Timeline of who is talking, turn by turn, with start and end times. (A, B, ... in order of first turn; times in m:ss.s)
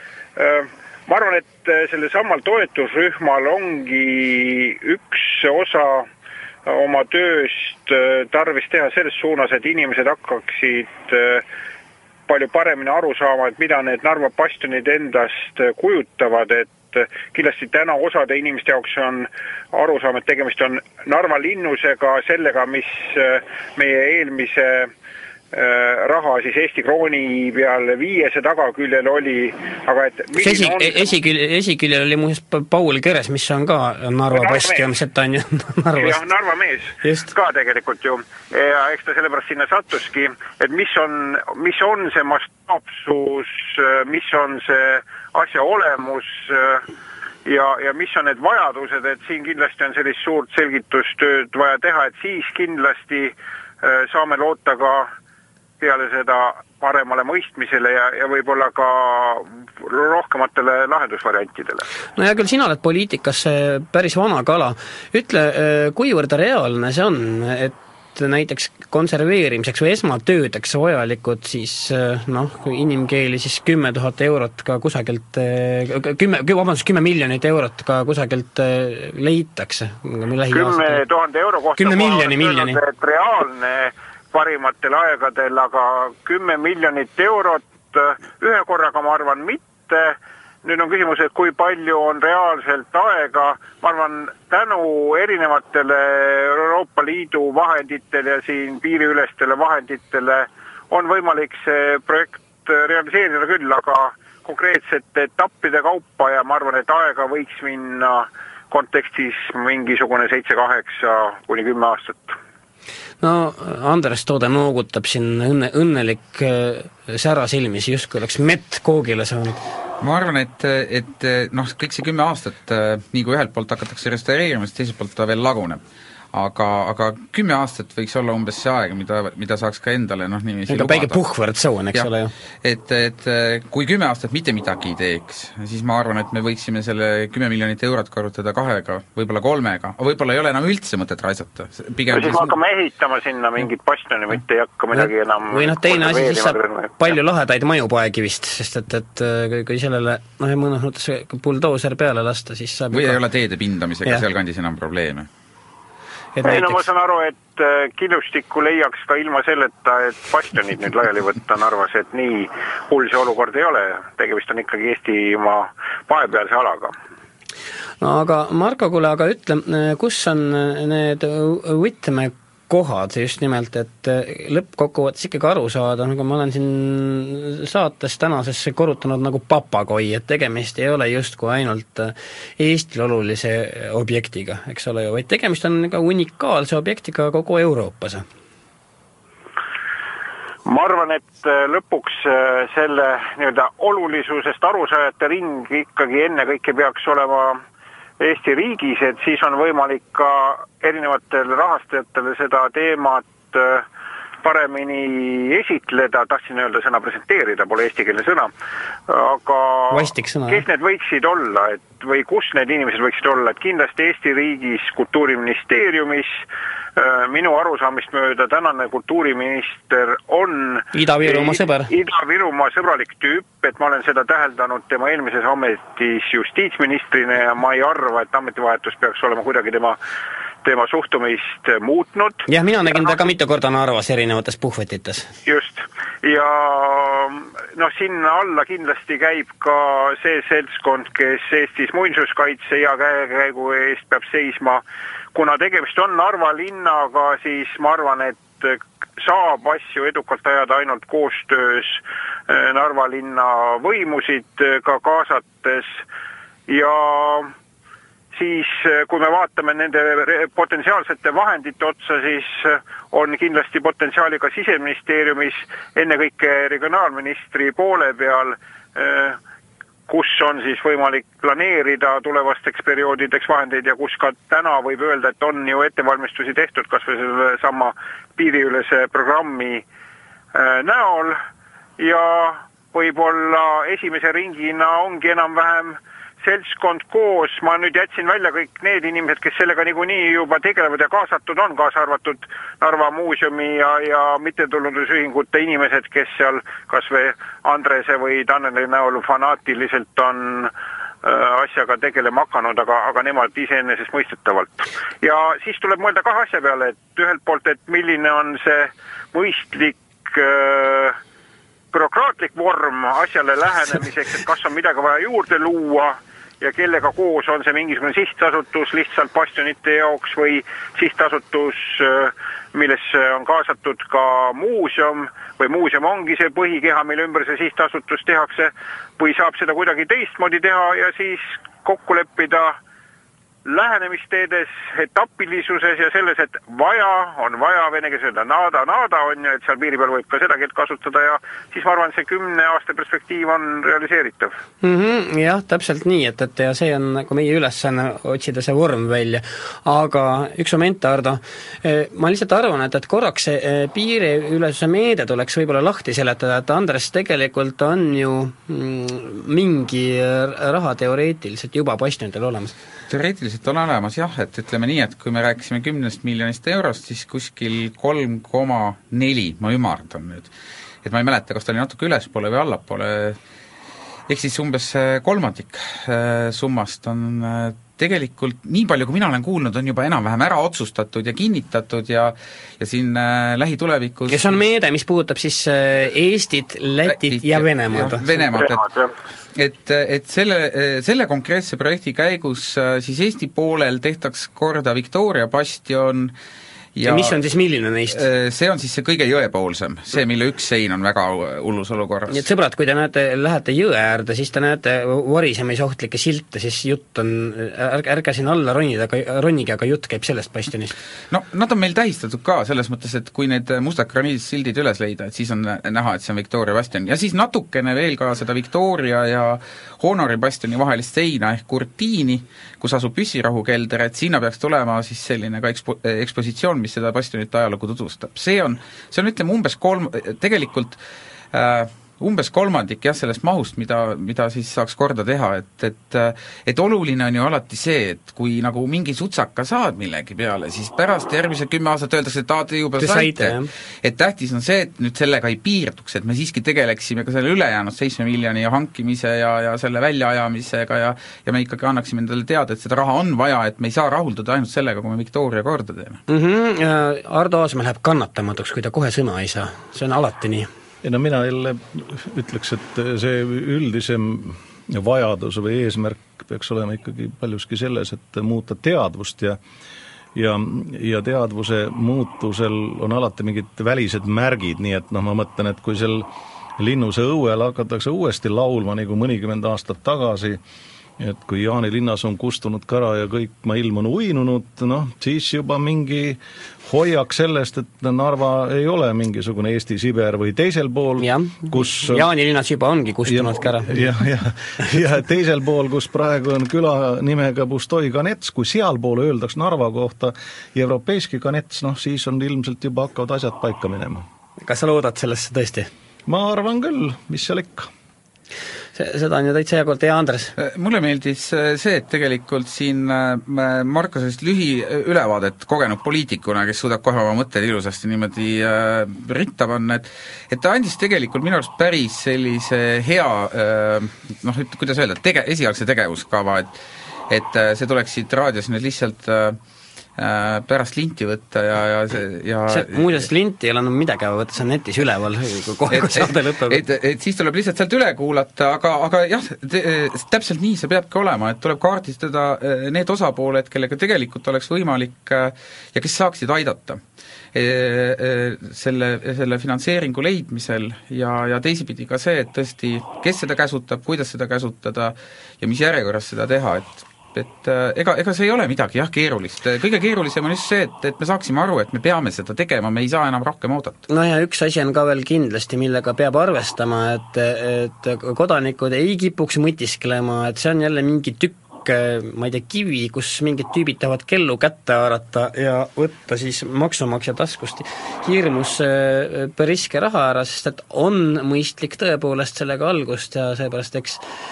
0:00.4-0:06.1 A
0:06.6-0:11.4 A
0:12.3-0:24.9 A
0:25.5-0:31.1 A
0:30.4-0:36.2 B
0:34.3-0:34.8 A
0:36.0-0:46.9 A
0:37.0-0:37.3 B
0:47.4-0:55.1 A
0:55.8-1:01.9 A
1:02.2-1:21.0 B
1:20.5-1:52.4 A
1:21.8-1:22.8 B
1:53.2-1:59.6 B
2:00.0-2:05.8 C
2:06.3-2:11.2 C
2:10.7-2:12.3 B
2:12.6-2:22.6 C
2:22.1-2:27.1 A
2:24.9-2:33.2 B
2:32.9-2:35.3 C
2:36.4-2:36.8 B
2:36.4-2:46.9 A
2:48.0-3:08.2 B
3:10.6-3:17.6 A
3:18.2-3:23.8 A
3:24.4-3:28.5 A
3:29.1-3:36.4 A
3:29.9-3:30.6 B
3:37.0-3:50.0 A
3:40.9-3:41.9 B
3:50.6-3:53.2 A
3:52.5-3:55.3 B
3:55.4-4:16.0 A
4:16.7-4:17.5 A
4:18.3-4:29.4 A
4:30.1-4:39.8 A
4:40.5-4:41.4 A
4:42.0-5:11.2 A
5:11.9-5:32.8 A
5:33.6-5:44.6 A
5:44.8-6:02.7 B
6:03.1-6:10.5 C
6:11.0-6:13.4 C
6:14.3-6:24.6 C
6:24.3-6:28.3 B
6:27.1-6:28.8 C
6:28.3-6:29.1 A
6:29.5-6:36.3 C
6:36.9-6:37.4 C
6:37.0-6:38.2 B
6:38.1-6:42.4 C
6:42.3-6:50.9 B
6:51.3-7:11.0 C
7:11.5-7:36.2 C
7:23.0-7:23.7 B
7:36.3-7:40.7 B
7:41.0-7:49.6 D
7:50.3-8:00.6 D
8:01.2-8:12.3 D
8:11.2-8:14.0 B
8:13.3-8:24.2 D
8:24.6-8:25.9 B
8:26.2-8:27.9 D
8:28.9-8:30.5 B
8:30.6-8:46.8 C
8:47.3-8:49.6 C
8:50.2-8:53.3 C
8:52.7-8:56.8 B
8:55.9-9:07.0 C
9:07.5-9:24.0 C
9:24.1-9:44.2 B